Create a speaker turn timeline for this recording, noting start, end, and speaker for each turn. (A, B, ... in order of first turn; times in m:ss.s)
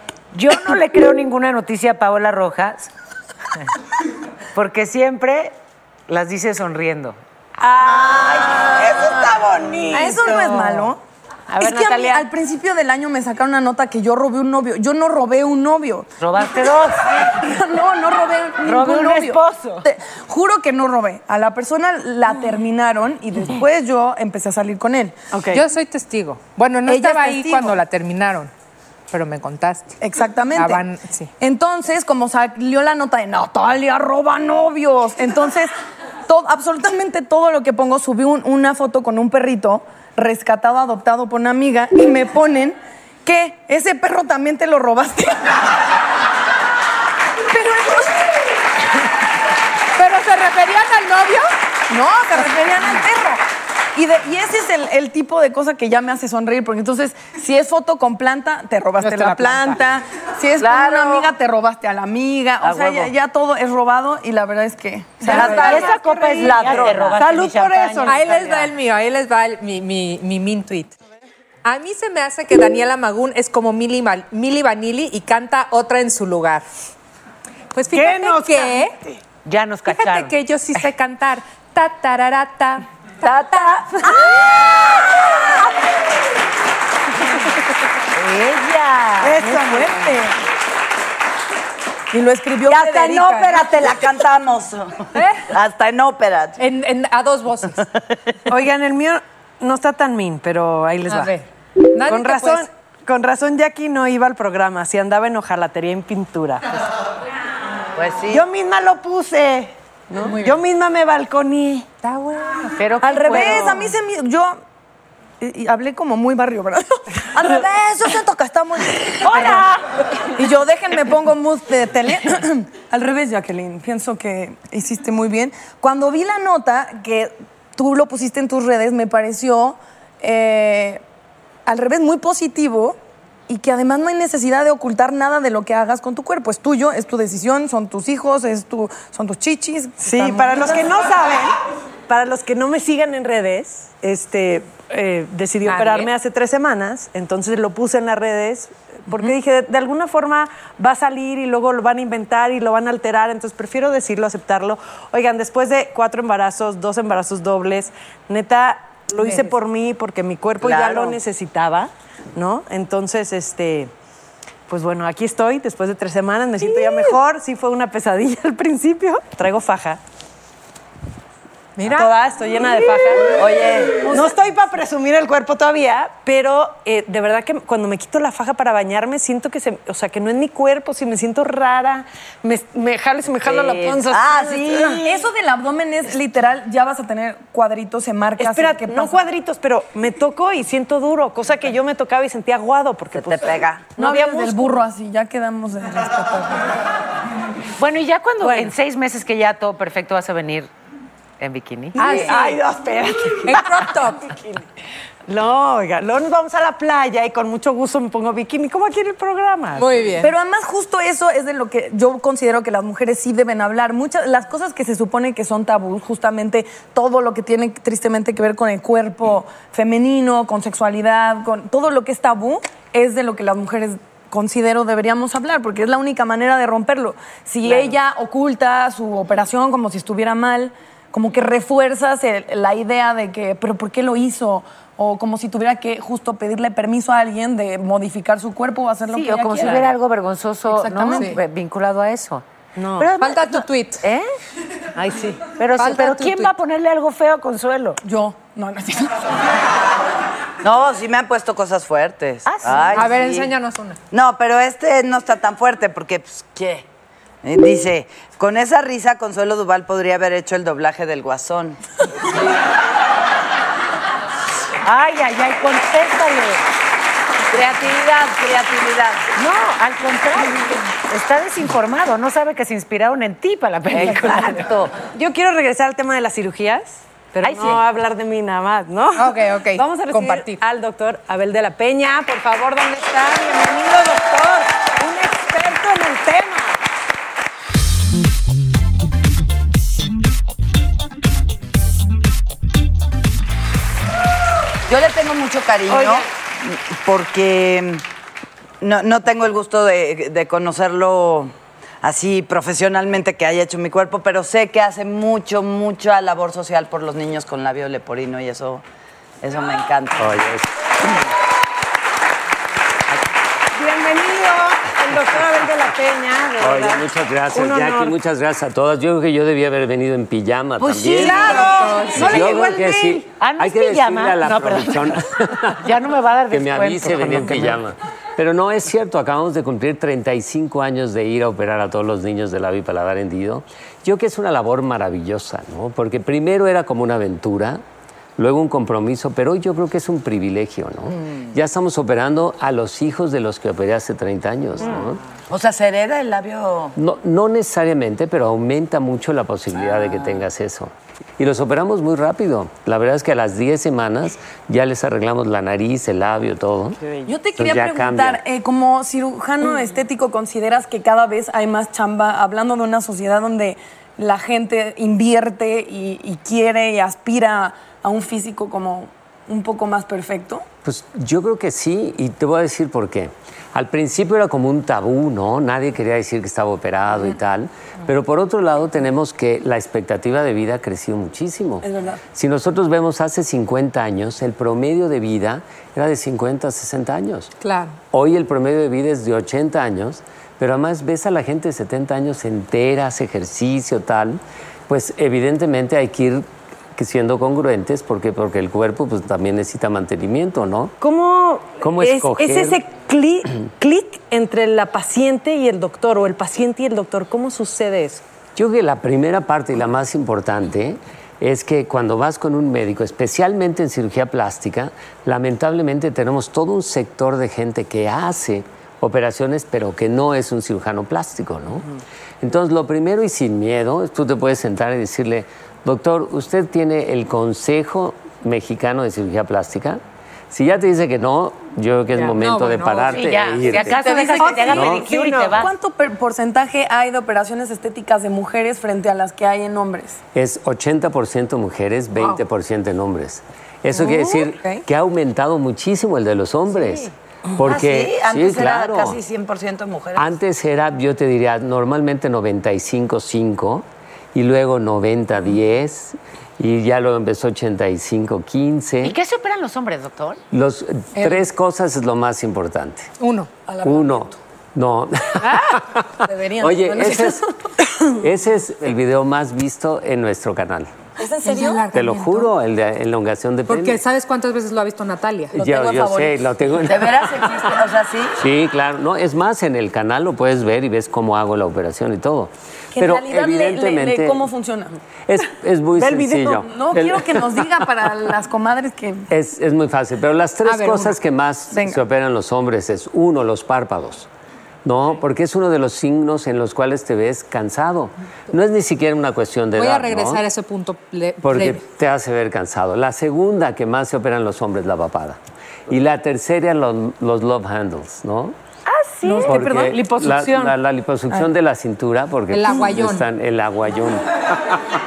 0:00.3-0:02.9 A
0:04.5-0:05.5 A
0:06.1-0:07.2 A
0:07.8-0:10.9 A
0:07.9-0:10.2 B
0:09.9-0:11.0 C
0:11.5-0:12.3 A
0:11.6-0:25.2 C
0:16.2-0:17.3 A
0:18.6-0:19.8 A
0:25.3-0:25.6 B
0:25.5-0:28.5 D
0:26.9-0:27.8 C
0:29.1-0:29.9 D
0:30.0-0:30.8 C
0:30.5-0:31.3 D
0:31.4-0:35.7 C
0:36.3-0:45.6 C
0:47.5-0:48.1 C
0:50.0-0:51.5 D
0:51.9-0:53.4 C
0:53.9-1:05.6 C
0:59.0-0:59.8 D
1:00.6-1:01.3 E
1:02.6-1:03.0 E
1:05.2-1:05.9 D
1:05.2-1:08.7 A
1:05.3-1:07.2 E
1:05.4-1:08.5 B
1:08.0-1:11.0 D
1:11.6-1:16.6 D
1:17.7-1:19.0 D
1:17.9-1:19.2 B
1:19.4-1:20.3 A
1:19.8-1:23.7 D
1:23.2-1:24.1 E
1:28.1-1:29.4 A
1:29.2-1:30.2 B
1:29.4-1:30.3 C
1:32.1-1:33.7 C
1:32.6-1:36.6 E
1:35.1-1:35.4 D
1:36.6-1:37.8 D
1:38.5-1:41.3 B
1:41.1-1:42.7 D
1:42.1-1:46.6 B
1:48.0-1:48.4 E
1:48.3-1:51.8 B
1:50.2-1:50.5 D
1:52.0-1:52.8 D
1:52.8-1:53.9 A
1:53.0-1:54.6 C
1:53.2-1:53.8 B
1:55.4-1:59.6 C
1:59.2-1:59.8 A
2:00.3-2:11.0 C
2:11.6-2:13.0 C
2:13.5-2:20.8 C
2:20.0-2:21.5 B
2:22.1-2:43.9 B
2:25.6-2:26.1 D
2:39.2-2:39.5 D
2:40.6-2:41.2 E
2:44.7-2:50.0 B
2:51.8-2:52.1 D
2:51.8-2:53.4 B
2:53.4-2:54.2 E
2:54.0-3:05.0 B
3:03.4-3:04.0 A
3:04.0-3:05.1 E
3:05.0-3:09.2 C
3:08.4-3:14.8 B
3:13.1-3:14.0 E
3:14.0-3:16.7 C
3:17.8-3:20.7 A
3:18.4-3:18.7 B
3:21.4-3:22.4 A
3:22.0-3:22.6 D
3:22.1-3:23.6 B
3:23.4-3:24.3 D
3:25.3-3:29.8 B
3:29.8-3:30.3 D
3:30.2-4:00.0 C
3:47.6-3:47.9 A
3:59.1-4:02.4 A
4:00.7-4:01.3 C
4:02.8-4:03.1 B
4:03.0-4:04.3 A
4:03.2-4:04.0 D
4:05.0-4:08.0 A
4:05.8-4:06.5 D
4:08.0-4:09.3 C
4:10.6-4:13.5 E
4:12.4-4:13.1 A
4:12.9-4:14.0 D
4:14.1-4:16.8 E
4:17.4-4:21.8 E
4:24.8-4:26.6 A
4:27.5-4:29.3 E
4:29.4-4:34.9 A
4:35.0-4:46.8 B
4:37.4-4:37.8 A
4:39.2-4:40.6 D
4:54.9-4:58.0 E
4:55.9-4:56.2 B
4:58.8-5:08.8 E
5:09.4-5:10.4 E
5:10.2-5:10.7 F
5:13.7-5:18.1 B
5:16.6-5:21.5 F
5:20.9-5:21.7 A
5:21.1-5:23.2 B
5:21.2-5:22.5 D
5:22.1-5:25.9 F
5:23.2-5:25.1 A
5:25.8-5:27.8 A
5:26.5-5:37.8 F
5:38.4-5:45.2 F
5:45.5-5:46.9 E
5:47.0-5:57.0 F
5:49.8-5:50.4 E
5:57.2-6:10.6 C
5:57.6-5:58.4 F
6:10.8-6:27.5 F
6:21.8-6:22.2 C
6:27.6-6:28.0 D
6:28.1-6:40.9 F
6:41.0-6:48.2 B
6:41.8-6:42.8 F
6:48.6-7:01.9 F
7:02.4-7:15.1 F
7:12.1-7:13.2 D
7:13.1-7:15.7 A
7:13.8-7:15.0 C
7:14.4-7:15.6 B
7:15.6-7:20.2 C
7:20.3-7:29.2 F
7:24.0-7:24.8 C
7:27.6-7:30.3 E
7:30.1-7:39.2 F
7:39.0-7:40.4 A
7:40.5-7:43.1 F
7:43.2-7:43.5 D
7:43.7-7:44.3 C
7:43.8-7:50.9 F
7:45.4-7:45.7 D
7:46.2-7:47.4 C
7:51.2-7:51.9 C
7:51.4-7:52.5 D
7:51.9-7:54.0 F
7:53.7-7:55.6 D
7:55.6-7:57.4 F
7:55.6-7:56.4 C
7:56.8-7:58.4 E
7:58.4-8:04.4 F
8:02.9-8:04.9 C
8:05.3-8:07.7 F
8:06.0-8:06.4 B
8:06.2-8:09.3 C
8:09.3-8:14.3 F
8:10.6-8:11.2 D
8:11.7-8:12.0 C
8:14.8-8:20.4 F
8:19.7-8:21.8 D
8:21.4-8:28.5 F
8:28.9-8:29.7 A
8:29.4-8:34.3 F
8:29.4-8:30.7 B
8:32.5-8:33.3 D